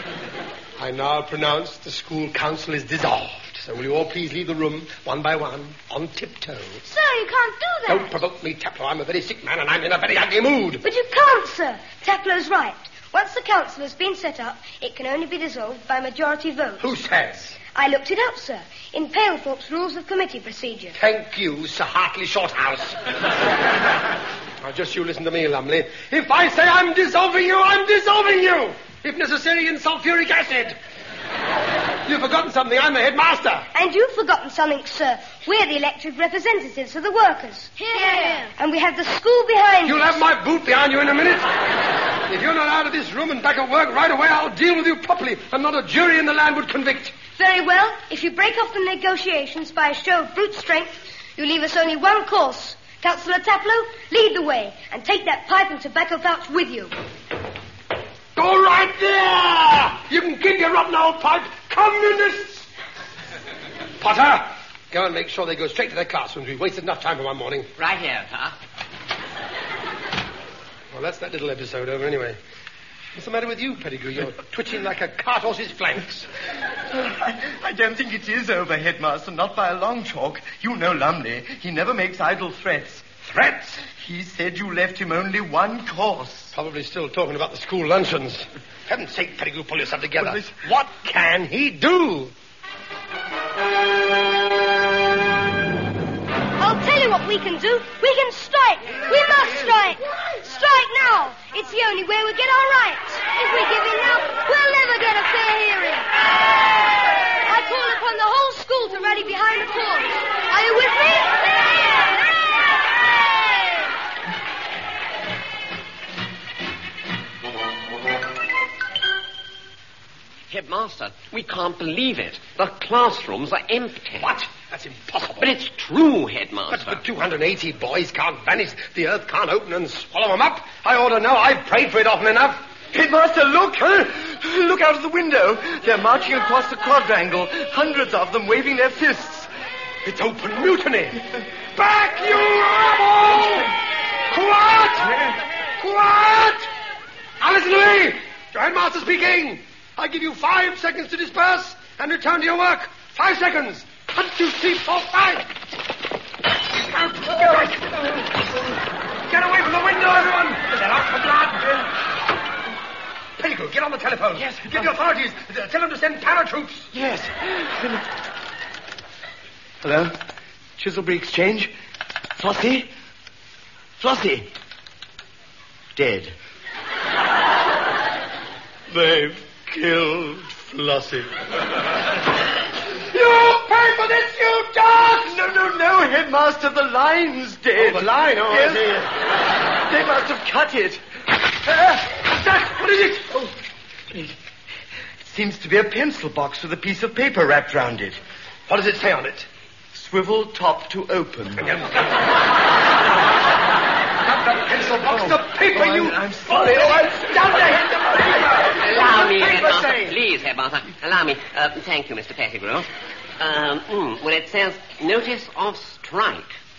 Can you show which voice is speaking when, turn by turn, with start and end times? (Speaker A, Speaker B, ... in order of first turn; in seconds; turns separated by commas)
Speaker A: 0.8-6.8, Speaker B: 6.8-8.2, Speaker A: 7.9-10.8, Speaker C: 10.8-16.8, Speaker A: 16.8-17.6, Speaker C: 17.7-20.9, Speaker A: 20.9-23.0, Speaker A: 24.6-30.8, Speaker A: 32.0-33.6, Speaker C: 33.7-40.2, Speaker B: 37.8-38.5, Speaker A: 39.8-41.5, Speaker A: 42.3-47.1, Speaker C: 47.4-56.9, Speaker A: 58.4-62.7, Speaker A: 64.0-67.7, Speaker D: 67.8-68.5, Speaker A: 70.9-72.4, Speaker A: 73.1-76.3, Speaker E: 76.9-83.1, Speaker A: 83.2-83.8, Speaker E: 83.8-86.5, Speaker A: 86.5-92.3, Speaker E: 90.2-90.5, Speaker C: 96.6-106.1, Speaker C: 107.4-112.7, Speaker D: 120.5-124.3, Speaker A: 124.2-125.5, Speaker D: 125.4-127.0, Speaker A: 126.7-132.6, Speaker E: 132.9-139.5, Speaker A: 140.0-143.7, Speaker A: 144.3-146.7, Speaker A: 147.4-155.5, Speaker A: 156.7-158.5, Speaker A: 159.3-161.9, Speaker A: 163.4-166.9, Speaker E: 164.3-164.9, Speaker E: 166.9-168.1, Speaker E: 169.8-170.2, Speaker E: 170.8-171.7, Speaker E: 172.4-172.9, Speaker E: 174.0-174.5, Speaker E: 175.9-176.3, Speaker A: 178.9-181.3, Speaker A: 183.0-185.4, Speaker E: 185.2-188.9, Speaker A: 187.8-189.1, Speaker E: 189.8-191.0, Speaker E: 191.6-192.0, Speaker A: 192.1-193.5, Speaker E: 195.2-198.2, Speaker A: 198.7-199.5, Speaker E: 199.9-201.7, Speaker A: 201.6-202.1, Speaker A: 204.2-210.1, Speaker E: 205.0-210.1, Speaker D: 208.8-212.9, Speaker D: 213.4-216.5